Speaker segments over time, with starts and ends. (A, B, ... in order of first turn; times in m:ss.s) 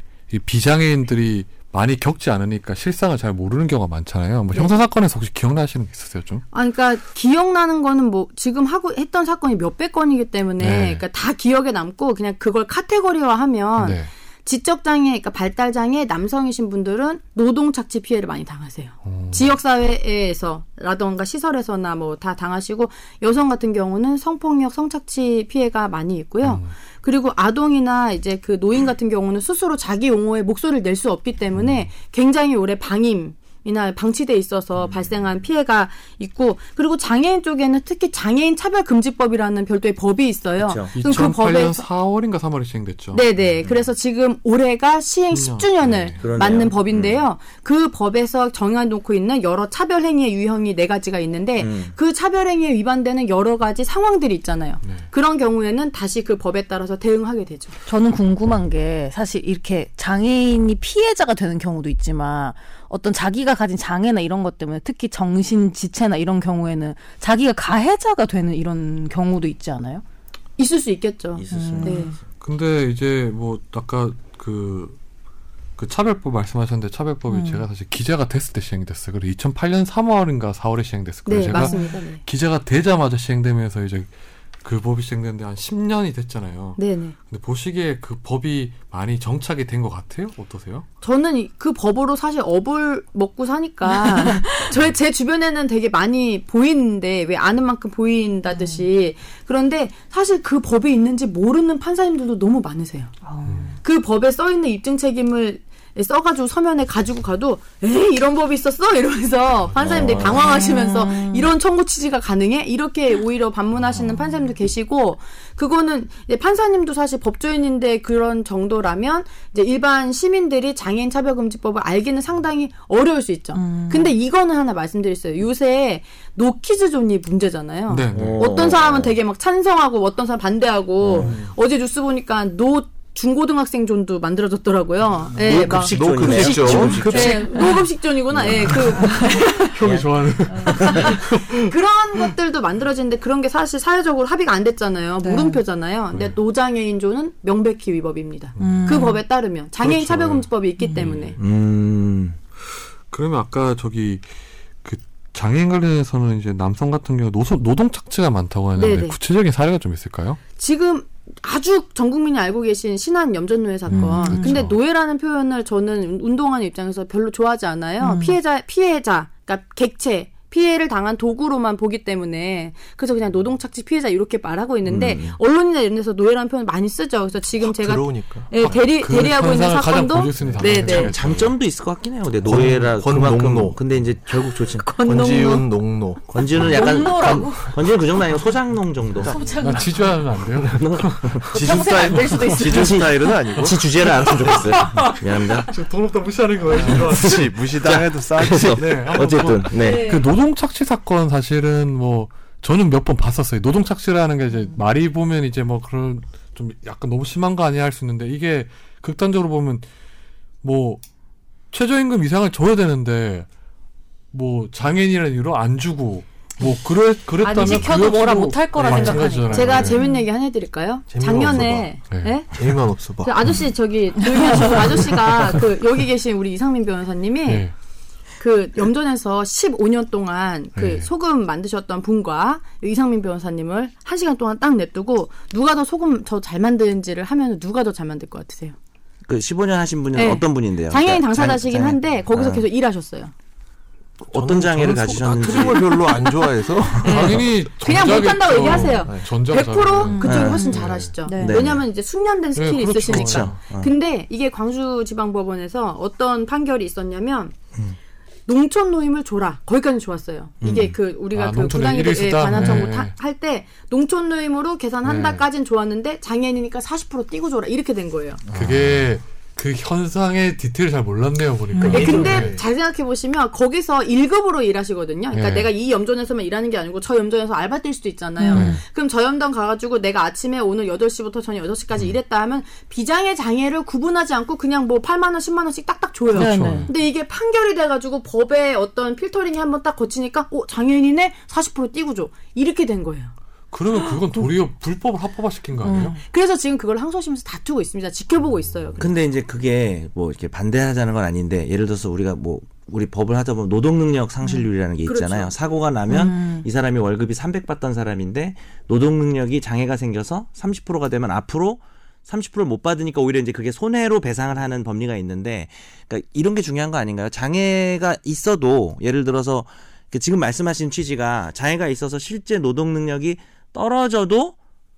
0:00.3-0:06.4 A
0:06.5-0:41.8 B
0:10.6-0:11.0 A
0:13.8-0:14.1 A
0:19.0-0:19.5 A
0:26.4-0:26.7 A
0:40.6-0:41.0 C
0:40.9-0:43.2 A
0:43.1-0:57.8 B
0:45.3-0:46.2 A
0:46.2-0:47.2 C
0:51.6-0:51.9 C
0:54.8-0:55.1 A
0:57.8-1:10.0 D
1:10.6-1:12.2 B
1:11.3-1:12.2 C
1:11.5-1:12.2 D
1:12.4-1:15.0 A
1:15.8-1:24.1 A
1:17.3-1:17.6 D
1:21.2-1:22.2 B
1:21.5-1:22.0 D
1:24.6-1:30.8 A
1:26.8-1:27.2 B
1:31.0-1:43.1 B
1:33.9-1:34.6 D
1:38.5-1:38.8 D
1:43.2-1:43.8 D
1:43.4-1:43.7 A
1:43.8-2:20.0 B
1:49.8-1:50.5 C
1:49.9-1:50.3 A
1:50.4-1:51.5 D
2:03.5-2:04.1 D
2:07.9-2:08.6 A
2:08.1-2:09.2 C
2:11.0-2:11.4 C
2:11.2-2:11.5 A
2:15.3-2:17.4 C
2:15.4-2:17.4 E
2:16.8-2:17.9 D
2:18.3-2:18.8 C
2:18.4-2:21.7 A
2:18.5-2:19.6 D
2:19.8-2:20.1 C
2:20.5-2:21.0 D
2:20.6-2:31.4 B
2:20.8-2:21.1 C
2:25.2-2:25.6 D
2:26.1-2:26.4 A
2:28.6-2:29.0 A
2:28.6-2:29.2 D
2:29.8-2:31.4 A
2:30.8-2:31.1 D
2:31.4-2:32.4 C
2:33.1-2:34.2 A
2:34.8-2:40.4 A
2:38.7-2:39.2 B
2:40.5-3:01.1 B
2:43.9-2:44.8 A
2:43.9-2:44.6 D
2:48.0-2:48.4 D
2:54.8-2:55.4 C
2:57.6-2:58.5 E
2:58.6-3:01.5 A
3:00.4-3:00.8 E
3:00.8-3:04.9 C
3:02.4-3:03.8 E
3:04.8-3:05.6 D
3:05.0-3:07.4 E
3:06.3-3:09.4 C
3:06.5-3:07.8 D
3:09.2-3:10.1 D
3:09.5-3:12.4 A
3:10.6-3:10.8 E
3:10.7-3:11.5 C
3:11.4-3:13.8 E
3:11.5-3:13.2 D
3:12.7-3:15.7 C
3:14.4-3:17.5 A
3:16.8-3:18.9 E
3:16.8-3:20.2 C
3:18.7-3:29.8 A
3:19.8-3:20.2 B
3:30.6-3:31.0 A
3:31.7-3:33.5 A
3:34.3-3:40.0 A
3:37.4-3:40.2 D
3:37.5-3:38.0 B
3:38.8-3:47.7 B
3:41.1-3:41.9 E
3:42.1-3:42.4 A
3:42.5-3:43.5 E
3:44.5-3:44.8 D
3:47.4-3:47.7 A
3:48.4-3:58.7 B
3:50.8-3:51.1 A
3:59.3-4:02.6 C
4:00.1-4:03.3 B
4:04.2-4:06.1 C
4:04.3-4:07.5 E
4:07.0-4:17.5 B
4:07.0-4:11.2 A
4:08.6-4:09.3 E
4:10.0-4:11.6 D
4:10.2-4:10.6 C
4:11.4-4:11.8 C
4:12.5-4:13.6 A
4:13.0-4:13.9 C
4:18.5-4:28.4 B
4:20.6-4:21.0 C
4:21.3-4:23.1 A
4:25.0-4:25.4 A
4:28.5-4:28.9 C
4:28.5-4:32.5 A
4:31.7-4:32.1 D
4:31.8-4:53.3 B
4:31.8-4:32.7 E
4:35.3-4:35.7 A
4:38.4-4:38.8 D
4:38.5-4:38.8 A
4:46.3-4:46.9 A
4:46.3-4:46.9 D
4:53.7-4:56.1 A
4:55.8-4:56.2 D
4:56.1-4:59.1 B
4:59.0-5:24.6 C
5:05.0-5:05.5 B
5:06.1-5:06.6 D